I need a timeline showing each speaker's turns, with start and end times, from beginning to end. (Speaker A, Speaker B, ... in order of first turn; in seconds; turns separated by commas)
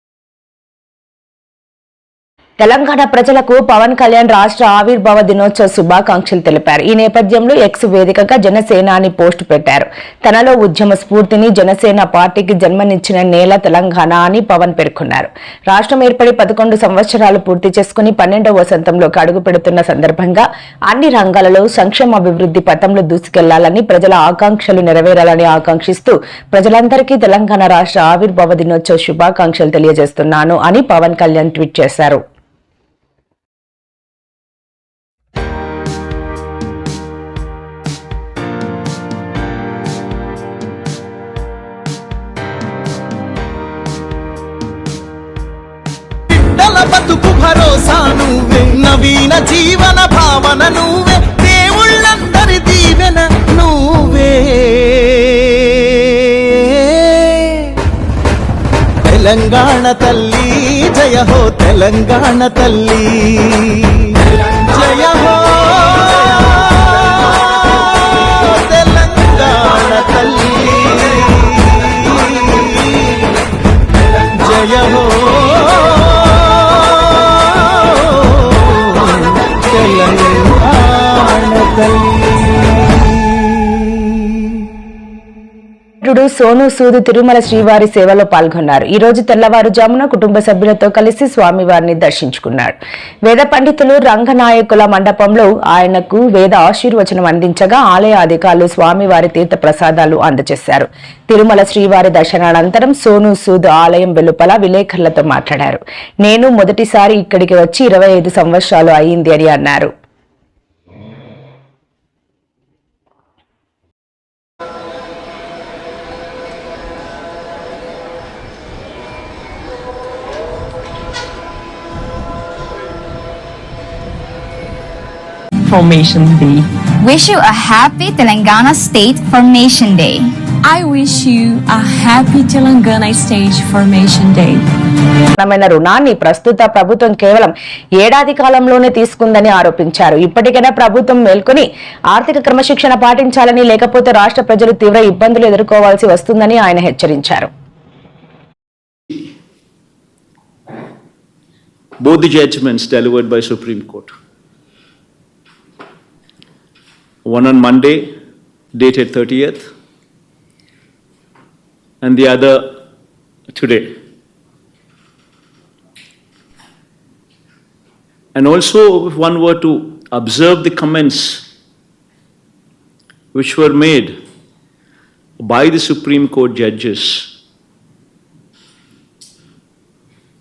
Speaker A: 2.6-32.2, Speaker B: 46.3-55.0, Speaker B: 59.1-63.5, Speaker B: 64.7-66.0, Speaker B: 68.7-71.0, Speaker B: 74.4-76.0, Speaker B: 79.7-82.5, Speaker A: 86.0-92.8, Speaker A: 93.3-109.9, Speaker C: 125.7-126.7, Speaker D: 127.0-130.3, Speaker C: 130.6-134.6, Speaker A: 135.4-147.5, Speaker E: 152.0-154.1, Speaker E: 157.2-158.1, Speaker E: 158.7-159.7, Speaker E: 162.0-162.8, Speaker E: 163.5-164.0, Speaker E: 168.3-171.4, Speaker E: 173.3-174.2, Speaker E: 175.4-177.3